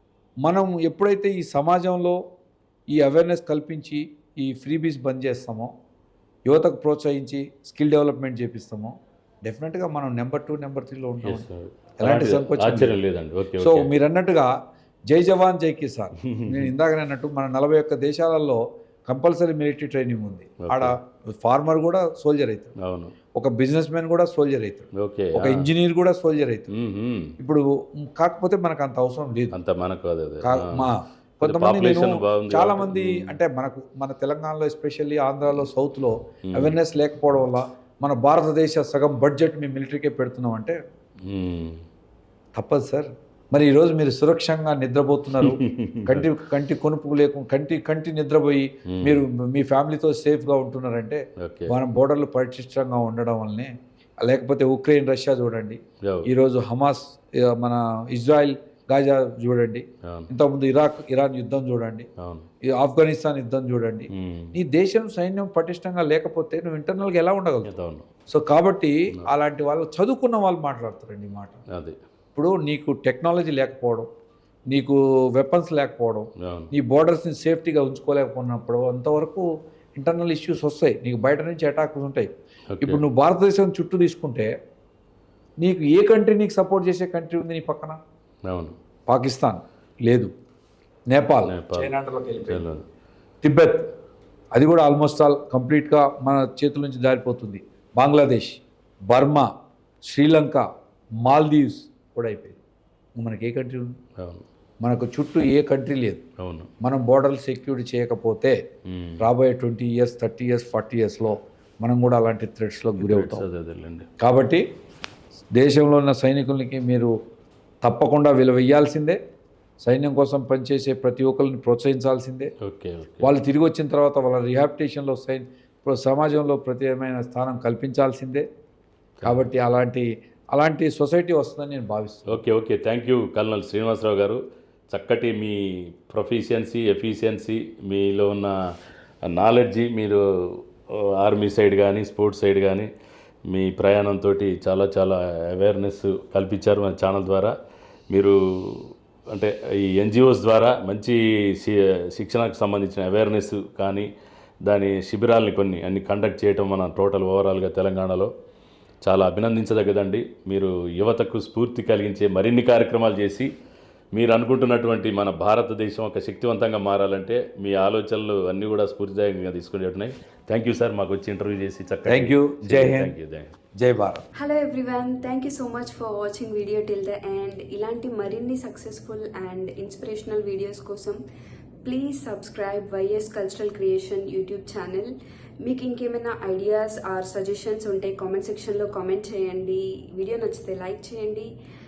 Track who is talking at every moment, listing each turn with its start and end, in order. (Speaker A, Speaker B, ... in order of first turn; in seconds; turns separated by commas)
Speaker A: 0.4-2.2, Speaker A: 2.9-5.7, Speaker A: 6.5-11.4, Speaker B: 11.2-13.9, Speaker A: 12.0-13.0, Speaker A: 13.6-14.5, Speaker A: 15.1-22.7, Speaker B: 16.2-16.7, Speaker B: 20.6-20.9, Speaker B: 22.8-23.1, Speaker A: 23.3-26.7, Speaker B: 24.9-25.7, Speaker B: 26.7-27.4, Speaker A: 27.4-29.5, Speaker B: 29.5-30.9, Speaker A: 30.4-40.8, Speaker B: 31.4-33.4, Speaker B: 36.5-36.8, Speaker B: 41.2-41.8, Speaker A: 42.5-62.1, Speaker B: 45.4-46.3, Speaker B: 48.9-49.2, Speaker B: 51.4-51.7, Speaker B: 56.0-56.3, Speaker B: 60.0-60.3, Speaker B: 62.2-62.5, Speaker A: 62.6-67.7, Speaker B: 64.1-64.5, Speaker B: 67.6-68.1, Speaker A: 68.3-71.6, Speaker B: 71.7-72.0, Speaker A: 72.3-74.1, Speaker A: 74.7-82.3, Speaker B: 76.4-76.7, Speaker B: 82.7-83.0, Speaker A: 82.8-84.5, Speaker A: 85.6-88.0, Speaker B: 88.5-88.8, Speaker A: 89.1-90.3, Speaker A: 91.1-92.6, Speaker B: 91.5-91.9, Speaker B: 92.4-92.8, Speaker A: 93.4-93.9, Speaker A: 94.5-99.5, Speaker A: 100.0-100.6, Speaker A: 101.2-102.6, Speaker A: 103.2-104.0, Speaker B: 104.2-104.4, Speaker A: 104.8-106.2, Speaker B: 106.4-106.7, Speaker A: 106.8-108.6, Speaker B: 108.9-109.2, Speaker A: 109.2-113.4, Speaker B: 113.0-114.1, Speaker A: 114.2-114.6, Speaker A: 115.5-117.1, Speaker A: 117.8-119.2, Speaker A: 119.8-122.5, Speaker B: 122.6-123.3, Speaker A: 123.2-128.4, Speaker A: 129.2-132.4, Speaker B: 132.3-138.5, Speaker B: 139.3-140.2, Speaker B: 140.9-142.9, Speaker B: 143.5-147.5, Speaker B: 148.1-154.1, Speaker B: 154.7-158.3, Speaker B: 159.1-163.5, Speaker B: 164.1-173.5, Speaker A: 172.1-173.2, Speaker A: 173.7-174.2, Speaker C: 174.3-181.2, Speaker C: 181.8-191.5